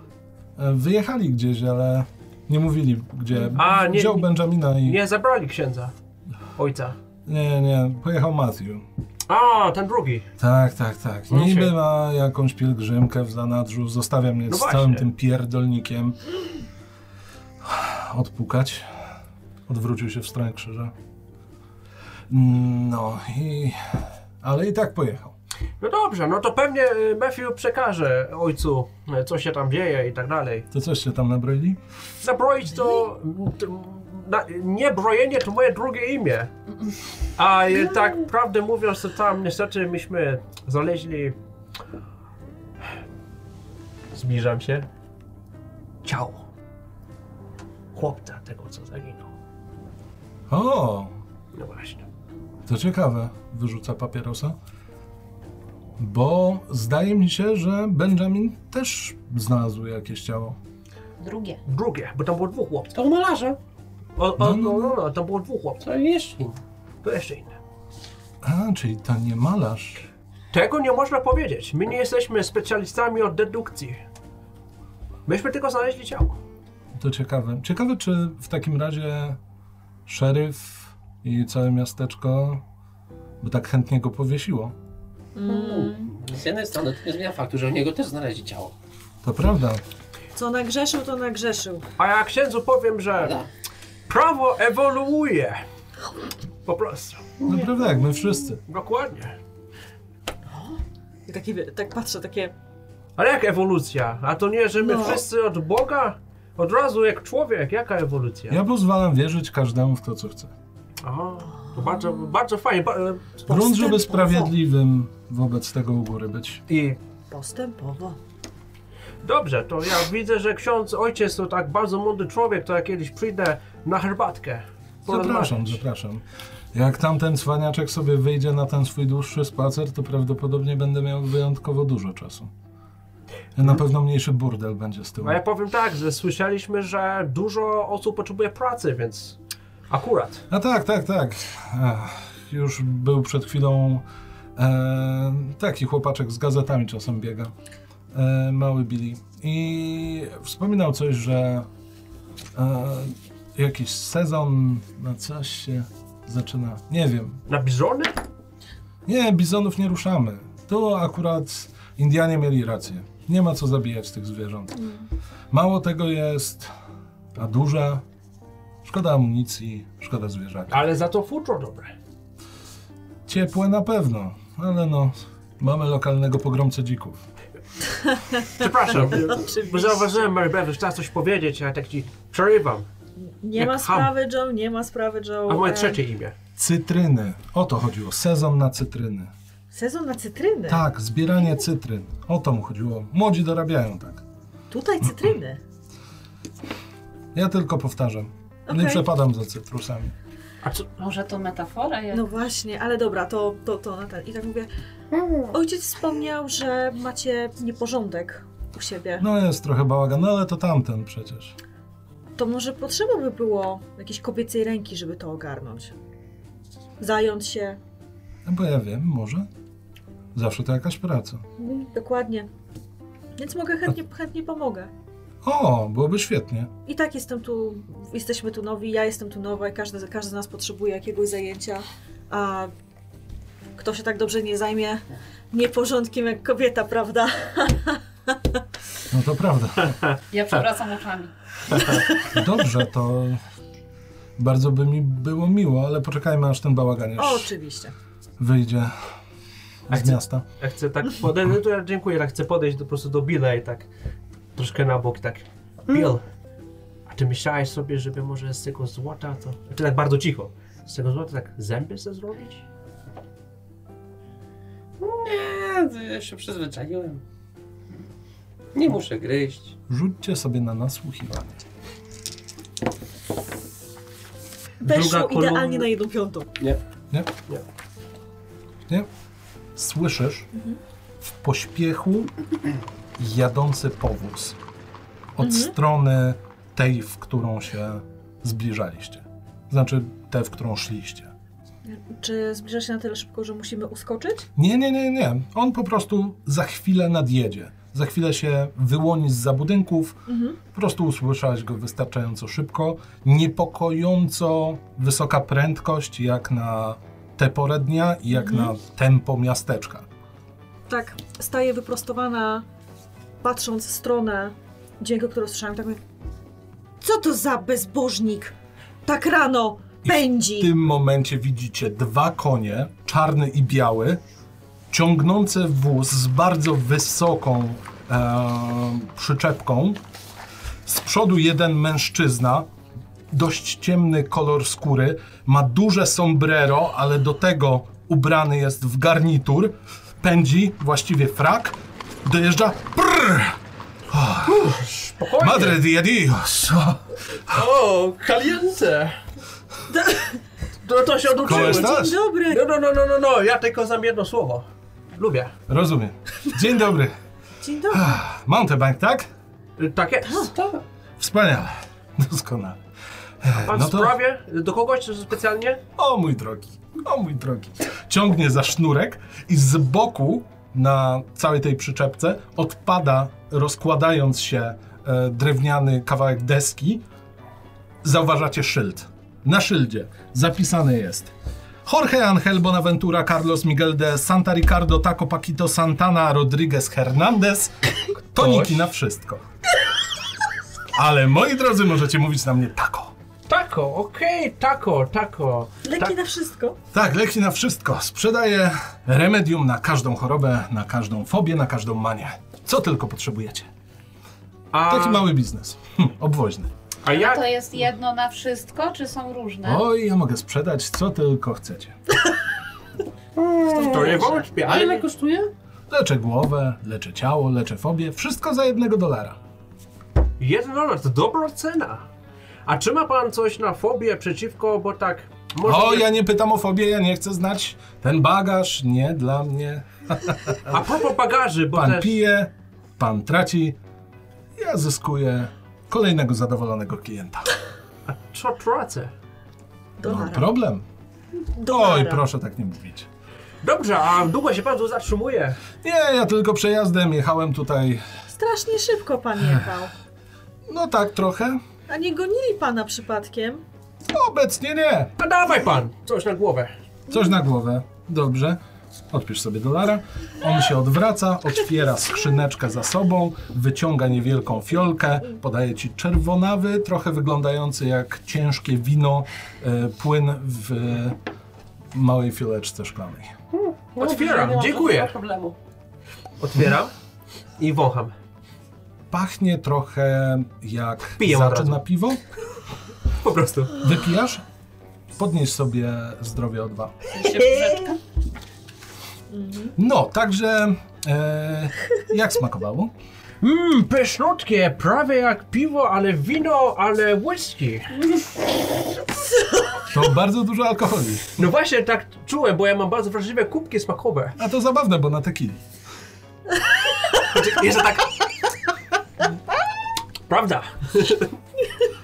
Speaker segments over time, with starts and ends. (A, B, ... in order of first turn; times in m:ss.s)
0:00.6-0:05.0 A
0:03.6-0:04.3 B
0:04.8-0:05.9 B
0:06.6-0:07.0 B
0:07.3-0:08.9 A
0:09.3-0:10.3 B
0:10.4-0:16.2 A
0:11.3-0:11.7 B
0:14.5-0:15.1 B
0:17.6-0:18.9 A
0:19.7-0:20.9 A
0:22.3-0:23.8 A
0:24.4-0:25.3 A
0:25.8-0:30.7 B
0:30.7-0:31.8 A
0:32.2-0:36.5 B
0:37.4-0:41.4 B
0:37.7-0:38.2 C
0:44.1-0:44.9 B
0:46.0-0:46.4 B
0:47.9-0:49.3 B
0:50.5-0:51.2 A
0:51.5-0:52.0 B
0:52.7-0:54.6 A
0:56.0-1:00.6 A
1:01.2-1:01.6 D
1:01.7-1:02.9 B
1:02.9-1:03.6 C
1:04.2-1:05.8 B
1:04.4-1:05.0 A
1:05.8-1:06.6 C
1:07.0-1:07.6 B
1:08.4-1:10.1 A
1:10.5-1:14.0 B
1:15.3-1:16.4 B
1:17.0-1:19.4 A
1:20.1-1:22.6 A
1:23.4-1:24.7 A
1:25.4-1:26.1 E
1:25.4-1:28.8 C
1:29.2-1:29.8 A
1:30.4-1:31.8 E
1:32.0-1:33.4 B
1:33.2-1:33.5 C
1:34.1-1:35.6 B
1:36.7-1:37.3 B
1:37.4-1:37.9 C
1:37.5-1:38.6 A
1:38.7-1:39.4 B
1:40.5-1:42.5 E
1:43.2-1:48.6 B
1:44.8-1:45.2 E
1:48.5-1:50.5 A
1:51.0-1:53.4 B
1:53.5-1:54.5 E
1:53.5-1:56.6 A
1:56.7-1:57.0 B
1:57.3-1:58.2 E
1:59.2-2:05.8 B
2:05.1-2:06.2 A
2:06.7-2:12.5 A
2:13.6-2:15.4 A
2:15.2-2:19.4 B
2:19.9-2:20.5 B
2:20.5-2:24.0 A
2:24.6-2:27.5 A
2:28.1-2:31.7 A
2:32.6-2:37.4 A
2:37.5-2:38.2 B
2:39.1-2:44.8 A
2:45.5-2:46.7 A
2:47.4-2:48.0 A
2:48.8-2:50.9 A
2:50.7-2:51.9 B
2:53.3-2:57.2 A
2:58.1-3:00.2 E
2:58.5-3:02.9 B
2:59.0-2:59.4 C
3:03.2-3:06.0 E
3:03.6-3:04.1 B
3:05.5-3:06.4 B
3:06.6-3:09.3 A
3:09.7-3:10.8 E
3:10.7-3:14.2 A
3:14.7-3:15.6 E
3:17.3-3:20.1 A
3:18.7-3:19.0 E
3:20.6-3:20.9 B
3:21.0-3:22.3 D
3:22.1-3:24.7 E
3:25.1-3:25.5 C
3:25.5-3:29.2 E
3:29.2-3:31.6 A
3:32.4-3:35.9 E
3:37.0-3:37.8 E
3:38.4-3:39.5 A
3:40.4-3:41.4 A
3:41.6-3:42.5 E
3:43.4-3:44.9 E
3:45.4-3:46.7 A
3:46.9-3:52.7 E
3:53.8-3:58.6 E
3:59.1-4:00.0 A
4:00.3-4:01.3 D
4:01.8-4:02.4 E
4:02.3-4:03.4 A
4:04.4-4:07.5 A
4:07.2-4:07.9 E
4:08.4-4:08.9 A
4:09.9-4:10.4 A
4:09.9-4:13.9 B
4:14.6-4:16.2 B
4:17.1-4:22.6 B
4:25.0-4:27.2 C
4:28.7-4:29.7 C
4:29.9-4:31.6 A
4:34.8-4:35.9 B
4:34.8-4:36.6 E
4:39.8-4:40.5 A
4:41.4-4:42.3 A
4:43.2-4:44.6 A
4:45.4-4:51.3 A
4:45.4-4:45.7 E
4:51.8-4:54.5 E
4:54.6-5:10.1 A
5:00.3-5:00.6 E
5:08.3-5:08.7 E
5:10.9-5:12.6 E
5:13.4-5:16.0 E
5:17.0-5:18.5 E
5:19.1-5:20.7 E
5:20.0-5:24.2 A
5:24.9-5:30.0 A
5:30.9-5:32.7 A
5:33.3-5:43.6 A
5:44.1-5:44.8 A
5:44.4-5:45.8 B
5:45.4-5:47.6 A
5:47.5-5:49.2 B
5:49.9-5:50.4 E
5:50.8-5:55.5 B
5:51.4-5:52.7 E
5:51.4-5:52.2 A
5:55.7-5:57.1 A
5:57.6-5:58.2 E
5:57.9-5:59.3 A
5:59.8-6:00.6 B
6:00.4-6:00.8 C
6:01.2-6:02.8 A
6:03.4-6:04.2 A
6:03.6-6:05.8 B
6:06.0-6:17.0 A
6:18.0-6:21.3 A
6:21.8-6:29.4 A
6:28.4-6:28.8 B
6:30.9-6:33.1 A
6:33.5-6:36.2 B
6:35.8-6:36.8 E
6:36.9-6:43.7 A
6:44.7-6:45.3 B
6:44.9-6:46.7 A
6:47.0-6:47.5 B
6:47.1-6:49.8 D
6:49.6-6:52.0 A
6:53.4-6:55.5 C
6:53.7-6:54.3 D
6:53.8-6:55.1 B
6:55.9-6:59.4 A
7:00.4-7:02.0 B
7:02.7-7:06.1 B
7:05.6-7:10.8 A
7:10.7-7:12.2 B
7:11.7-7:13.8 A
7:14.6-7:17.5 A
7:18.1-7:19.1 B
7:20.0-7:20.5 E
7:20.0-7:20.8 A
7:21.6-7:22.2 E
7:21.7-7:23.1 A
7:23.6-7:25.6 B
7:25.8-7:28.0 A
7:28.3-7:29.9 E
7:30.7-7:31.6 A
7:31.9-7:33.6 E
7:34.1-7:35.1 A
7:35.2-7:36.7 B
7:37.1-7:38.6 A
7:39.1-7:51.2 A
7:51.9-7:53.3 A
7:53.5-7:55.6 C
7:54.0-7:55.1 B
7:56.4-7:56.9 B
7:57.6-7:58.1 B
7:59.1-8:02.2 A
8:01.2-8:01.8 B
8:03.2-8:03.8 B
8:03.8-8:04.4 A
8:05.2-8:07.0 A
8:07.1-8:08.0 D
8:09.3-8:09.7 E
8:09.8-8:12.9 A
8:13.4-8:18.0 B
8:19.9-8:21.4 A
8:21.4-8:24.4 B
8:24.4-8:25.6 A
8:27.1-8:28.3 B
8:30.3-8:31.3 B